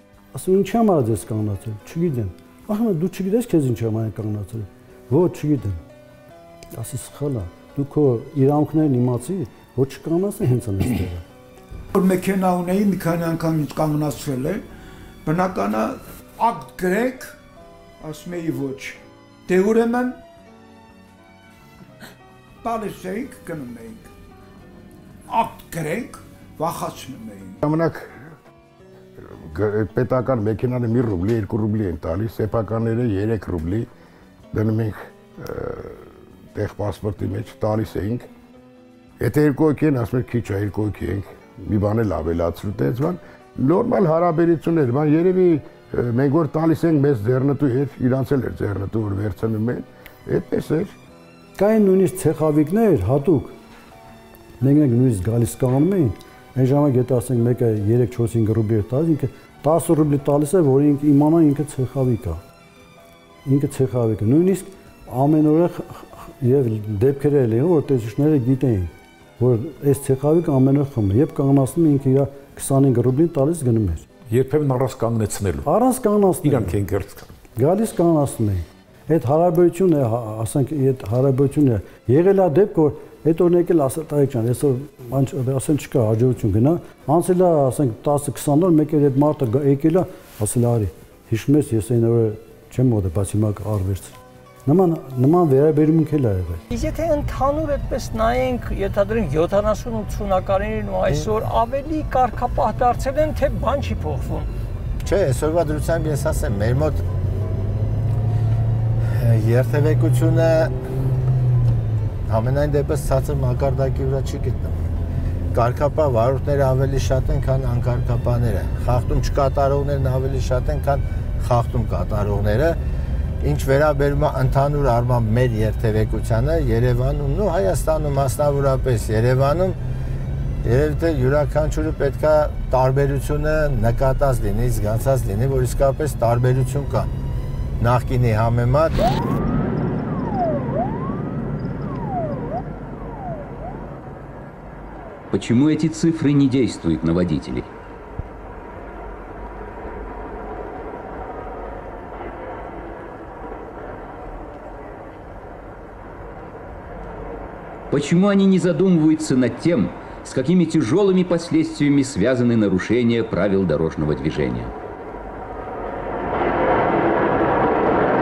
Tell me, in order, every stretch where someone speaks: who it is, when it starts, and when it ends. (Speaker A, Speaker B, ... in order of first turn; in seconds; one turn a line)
Speaker A: 0.3-5.8
Speaker A: 6.7-11.2
Speaker B: 11.9-14.6
Speaker B: 15.2-17.4
Speaker B: 18.0-20.2
Speaker B: 22.6-24.1
Speaker B: 25.3-27.6
Speaker C: 27.6-28.2
Speaker C: 29.2-33.9
Speaker C: 34.5-38.3
Speaker C: 39.2-50.9
Speaker A: 51.6-53.5
Speaker A: 54.6-62.4
Speaker A: 63.5-74.0
Speaker D: 74.3-75.7
Speaker A: 75.6-76.8
Speaker D: 76.4-77.3
Speaker A: 77.6-94.1
Speaker A: 94.7-96.6
Speaker E: 96.7-104.5
Speaker F: 105.0-107.0
Speaker F: 109.1-110.7
Speaker F: 112.2-114.9
Speaker F: 115.5-122.8
Speaker F: 123.4-129.8
Speaker F: 130.6-137.1
Speaker F: 137.8-139.1
Speaker G: 145.3-147.7
Speaker G: 157.9-164.7